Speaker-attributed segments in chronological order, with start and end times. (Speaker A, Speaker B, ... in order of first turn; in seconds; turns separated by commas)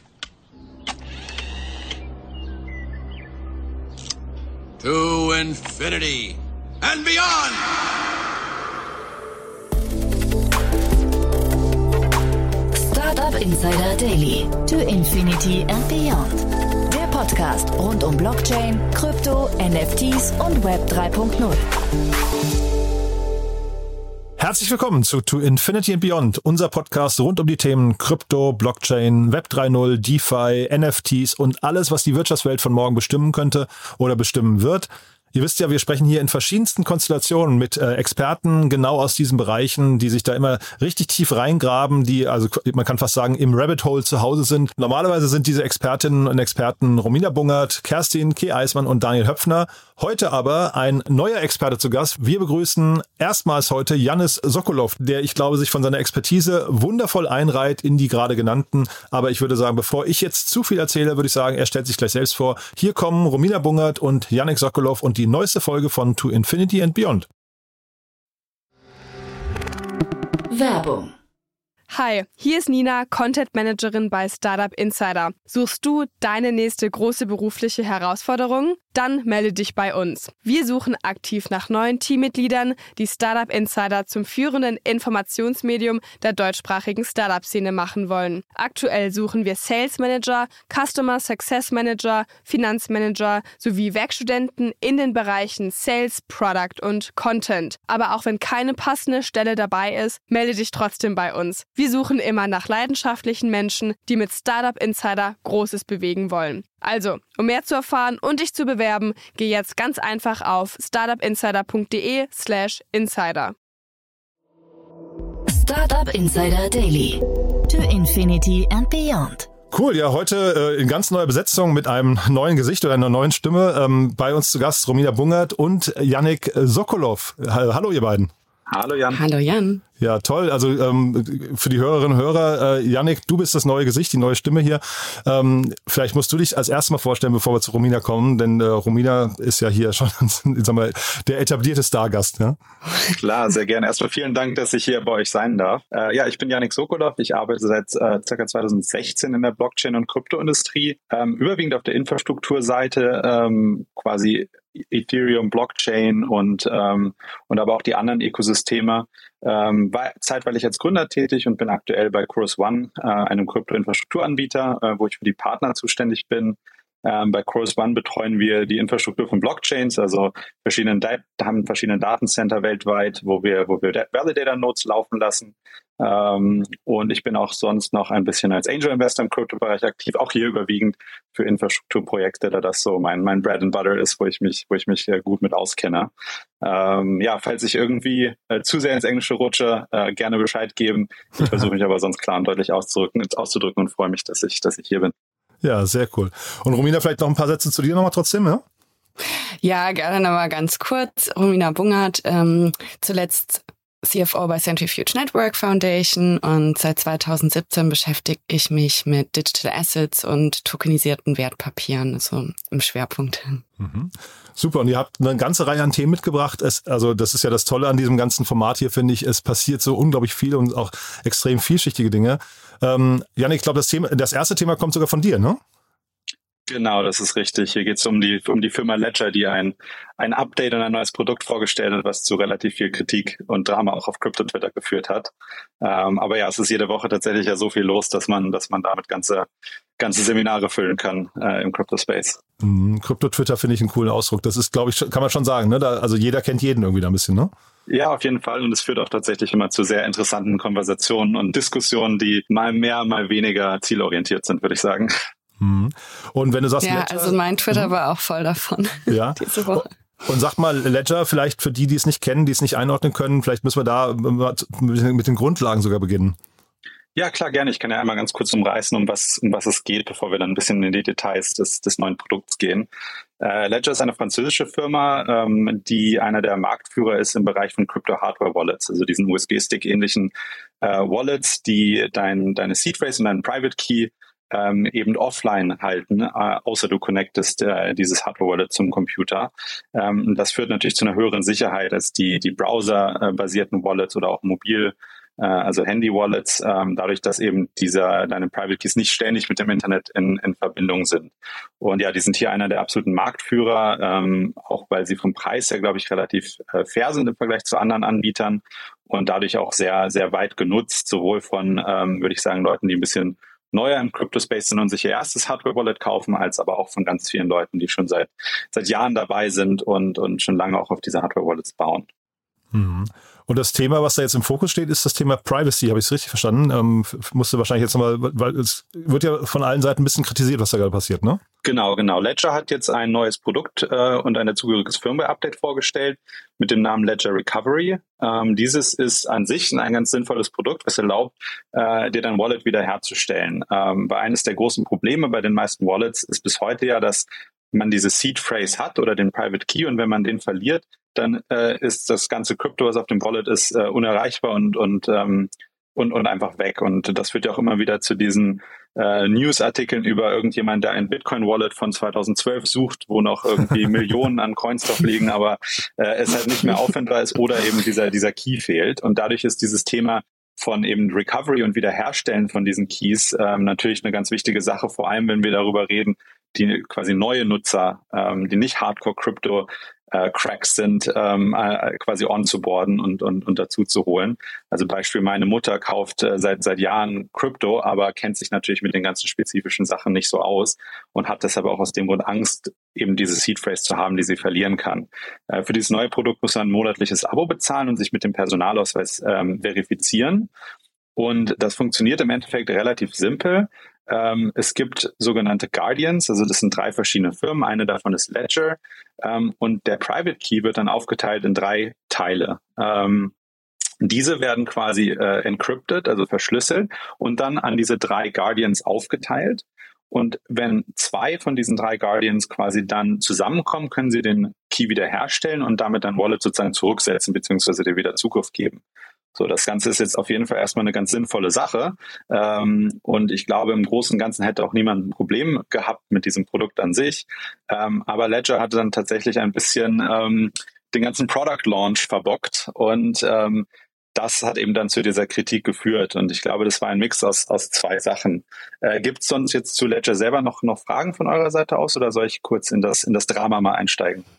Speaker A: 4.8-7.7, Speaker B: 12.8-21.6, Speaker C: 24.4-67.3, Speaker B: 70.5-71.1, Speaker D: 71.9-113.5, Speaker B: 115.5-119.5, Speaker C: 119.7-128.3, Speaker E: 128.7-129.2, Speaker F: 129.1-129.8, Speaker C: 130.0-142.6, Speaker E: 143.1-186.1, Speaker E: 186.6-195.1, Speaker C: 195.6-198.6, Speaker F: 199.6-213.6, Speaker C: 213.8-225.6, Speaker E: 226.7-239.4, Speaker E: 240.0-242.4, Speaker C: 242.6-247.5, Speaker E: 247.9-255.1, Speaker C: 255.6-257.9, Speaker F: 256.8-259.9, Speaker C: 259.1-266.4, Speaker E: 267.1-272.9, Speaker E: 273.4-322.1, Speaker C: 322.7-331.4, Speaker E: 331.6-400.5, Speaker E: 401.1-413.3, Speaker E: 414.0-428.8, Speaker E: 429.3-454.2